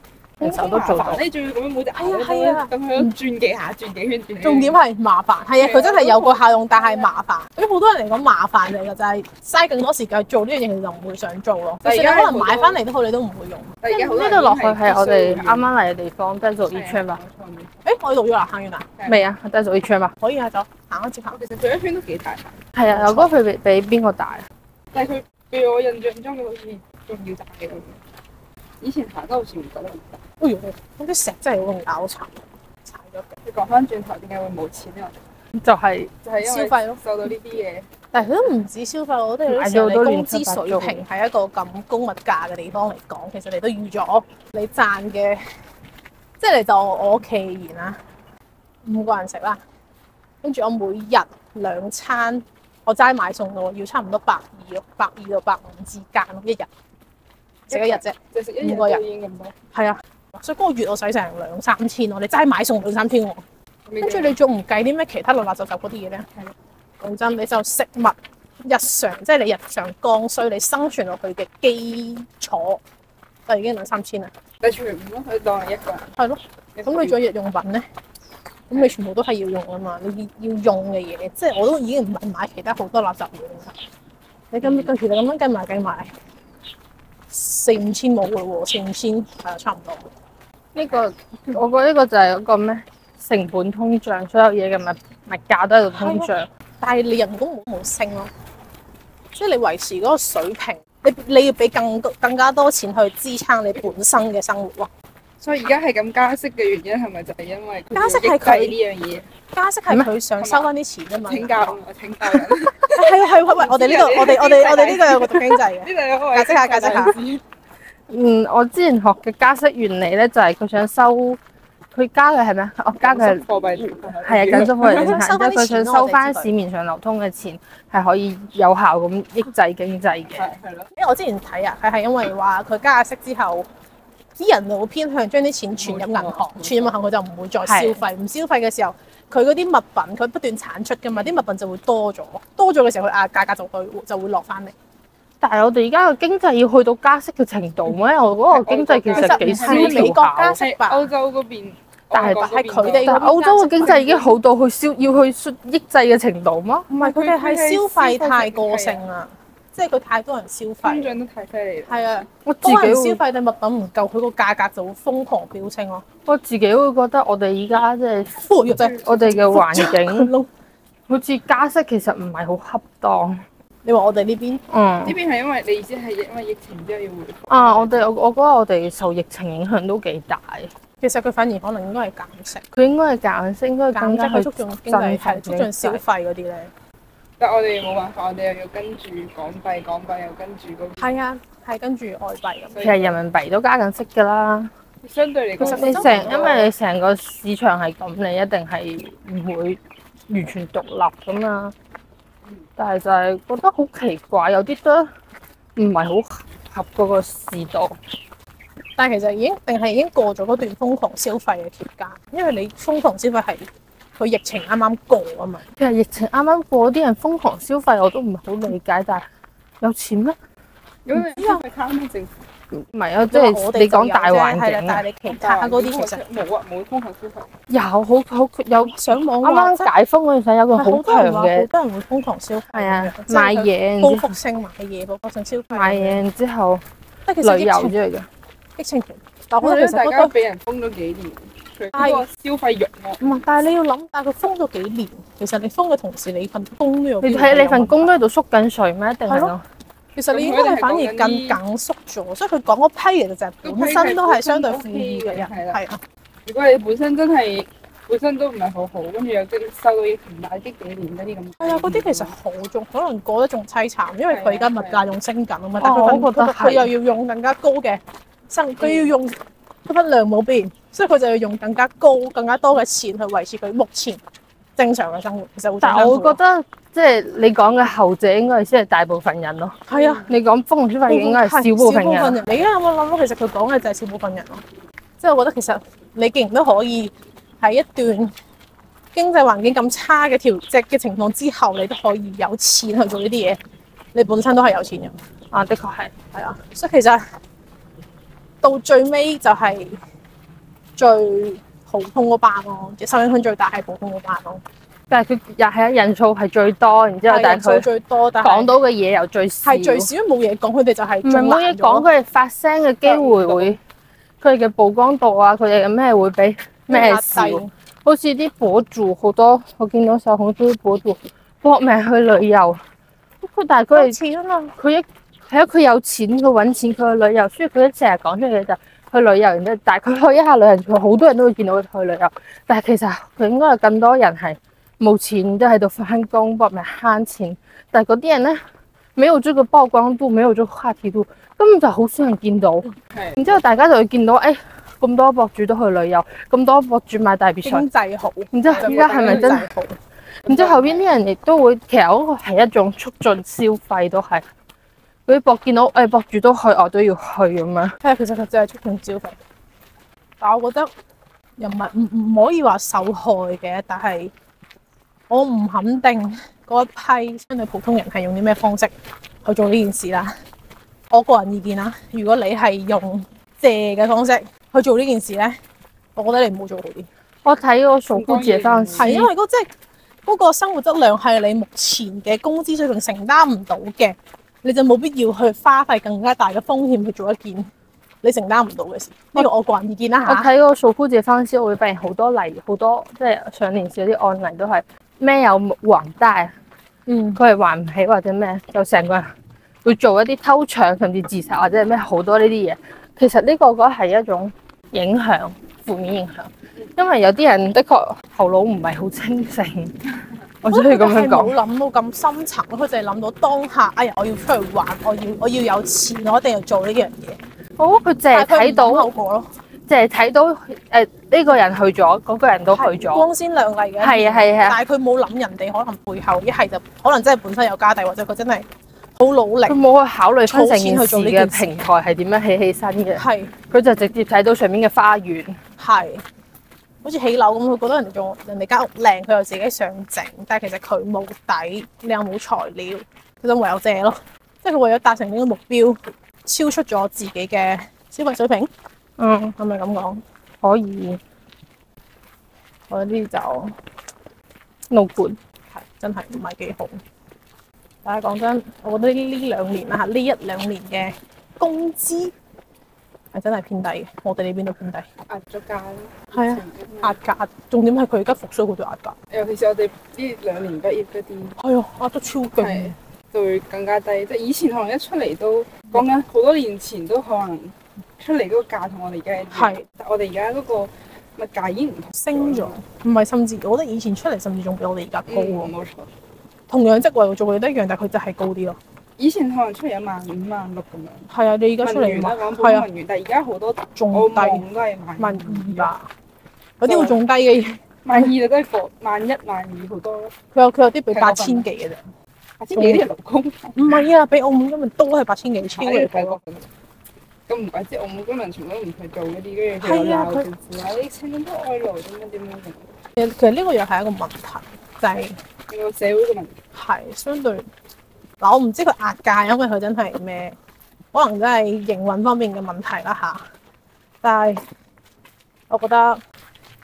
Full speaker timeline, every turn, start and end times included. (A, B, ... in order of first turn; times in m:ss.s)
0:00.4-0:04.8 A
0:00.4-0:01.2 B
0:00.5-0:01.2 C
0:02.0-0:03.1 C
0:04.4-0:13.8 C
0:05.5-0:07.1 A
0:11.8-0:12.8 A
0:13.8-0:15.7 A
0:13.9-0:17.2 B
0:16.7-0:17.7 A
0:17.8-0:18.9 C
0:19.0-0:19.2 A
0:19.1-0:20.1 B
0:20.2-0:21.4 C
0:21.3-0:22.6 A
0:22.8-0:24.4 B
0:22.9-0:23.3 C
0:24.9-0:28.0 A
0:28.8-0:30.2 A
0:30.4-0:33.3 C
0:33.4-0:35.2 A
0:35.6-0:36.1 B
0:36.2-0:37.9 A
0:36.4-0:37.0 C
0:38.1-0:45.4 C
0:39.5-0:41.0 B
0:46.4-0:48.0 C
0:48.8-0:49.6 C
0:50.4-0:56.7 C
0:57.7-0:59.0 C
0:57.7-0:59.5 A
0:59.7-1:03.4 C
1:03.8-1:04.4 A
1:04.0-1:06.3 C
1:07.0-1:12.8 C
1:13.5-1:14.3 C
1:14.6-1:16.1 A
1:16.2-1:17.8 C
1:16.8-1:17.2 A
1:18.7-1:23.8 C
1:24.5-1:26.1 C
1:24.6-1:24.9 A
1:27.3-1:30.1 C
1:30.7-1:36.5 B
1:35.9-1:38.3 C
1:39.3-1:44.9 C
1:45.4-1:49.3 A
1:47.9-1:48.8 C
1:49.5-1:57.2 C
1:50.4-1:50.7 A
1:51.2-1:57.4 A
1:58.1-2:01.4 B
2:01.9-2:10.5 B
2:03.0-2:05.2 A
2:04.8-2:06.5 C
2:10.4-2:10.9 A
2:10.9-2:13.7 C
2:14.4-2:24.7 C
2:15.8-2:17.0 A
2:17.6-2:18.0 B
2:21.1-2:21.4 A
2:25.4-2:30.6 B
2:28.5-2:33.1 A
2:29.1-2:31.1 C
2:32.1-2:32.4 B
2:32.1-2:34.3 C
2:33.0-2:36.9 B
2:36.9-2:41.2 C
2:37.0-2:39.0 A
2:40.8-2:42.2 A
2:41.9-2:46.0 C
2:42.4-2:43.2 B
2:46.2-2:48.4 B
2:48.4-2:50.5 C
2:48.8-2:49.5 A
2:49.0-2:50.3 B
2:51.1-2:53.4 B
2:53.8-2:54.6 C
2:54.7-2:55.2 B
2:55.0-2:58.0 A
2:57.5-3:00.7 B
3:01.0-3:02.6 C
3:02.7-3:06.0 B
3:03.9-3:06.7 C
3:07.4-3:11.1 A
3:11.0-3:13.2 C
3:12.7-3:13.1 A
3:12.8-3:14.7 B
3:15.0-3:16.7 A
3:15.6-3:16.6 C
3:15.6-3:21.7 B
3:22.8-3:25.1 B
3:25.8-3:27.9 B
3:29.0-3:35.6 C
3:35.8-3:39.2 B
3:39.8-3:40.4 B
3:41.0-3:42.4 A
3:41.4-3:41.6 C
3:42.7-3:45.0 B
3:43.3-3:46.2 C
3:45.2-3:47.5 A
3:47.7-3:51.7 B
3:48.9-3:49.9 C
3:50.7-3:56.2 C
3:52.7-3:54.4 B
3:55.7-3:56.8 B
3:57.3-3:58.0 C
3:57.4-3:58.3 B
3:58.8-4:00.3 C
3:59.6-4:03.2 A
4:01.9-4:02.2 C
4:03.2-4:08.1 C
4:07.2-4:09.6 B
4:09.3-4:09.5 C
4:10.2-4:16.0 C
4:10.3-4:11.6 A
4:13.6-4:15.8 A
4:16.5-4:22.3 A
4:21.6-4:34.2 C
4:24.3-4:25.1 A
4:25.8-4:26.9 B
4:28.8-4:29.1 A
4:34.8-4:36.4 C
4:35.8-4:42.4 B
4:39.9-4:40.3 C
4:41.1-4:44.6 C
4:45.2-4:48.3 C
4:49.1-4:53.6 C
4:54.1-4:55.2 C
4:55.5-4:56.1 B
4:56.3-4:57.2 C
4:58.6-5:00.0 C
5:01.0-5:04.6 C
5:05.1-5:07.9 B
5:07.3-5:08.7 C
5:08.4-5:10.1 B
5:09.6-5:12.1 C
5:11.2-5:13.8 B
5:13.0-5:13.8 A
5:14.4-5:22.8 B
5:16.9-5:17.7 C
5:23.4-5:24.2 B
5:23.9-5:24.7 C
5:24.8-5:38.6 B
5:39.2-5:47.9 B
5:43.1-5:43.6 A
5:47.6-5:49.9 C
5:48.5-5:49.7 B
5:48.8-5:49.6 A
5:50.4-5:51.0 A
5:50.4-5:54.4 B
5:55.3-5:58.0 B
5:58.0-5:59.4 C
6:00.4-6:00.9 C
6:01.6-6:04.3 C
6:05.3-6:08.9 C
6:09.4-6:10.3 C
6:11.1-6:15.6 C
6:16.2-6:17.1 C
6:17.4-6:19.3 B
6:18.1-6:19.2 A
6:19.0-6:19.7 C
6:20.2-6:27.7 C
6:28.2-6:30.5 C
6:30.2-6:36.5 B
6:37.1-6:37.4 C
6:37.3-6:49.9 B
6:50.6-6:51.5 B
6:50.7-6:57.4 C
6:57.8-6:59.1 B
6:58.3-6:59.5 C
6:59.9-7:03.3 B
7:02.7-7:09.8 C
7:04.0-7:04.8 B
7:09.7-7:15.6 B
7:10.5-7:11.8 C
7:13.2-7:13.5 C
7:15.8-7:16.2 C
7:17.0-7:28.7 C
7:29.2-7:29.6 B
7:29.6-7:30.2 C
7:30.6-7:31.2 B
7:32.9-7:33.7 C
7:34.9-7:35.4 B
7:35.7-7:37.0 C
7:38.0-7:42.3 C
7:43.3-7:45.1 C
7:45.3-7:47.2 A
7:46.3-7:49.2 C
7:49.3-7:51.6 A
7:51.6-7:52.9 C
7:52.6-8:02.8 A
7:59.5-7:59.8 C
8:02.2-8:05.7 C
8:05.3-8:06.1 A
8:06.7-8:08.8 C
8:09.2-8:11.3 A
8:11.3-8:12.8 C
8:11.8-8:15.9 A
8:13.9-8:14.7 C
8:15.2-8:16.1 C
8:16.8-8:18.3 C
8:16.8-8:17.2 A
8:18.0-8:20.3 A
8:20.5-8:22.0 C
8:21.1-8:21.7 A
8:22.6-8:24.0 A
8:22.8-8:23.0 C
8:23.8-8:26.4 C
8:25.8-8:26.7 A
8:27.5-8:32.9 A
8:29.8-8:30.5 C
8:33.2-8:35.4 C
8:35.7-8:36.6 A
8:36.7-8:37.7 C
8:38.4-8:40.6 C
8:41.1-8:43.5 C
8:44.2-8:44.6 C
8:45.7-8:46.2 C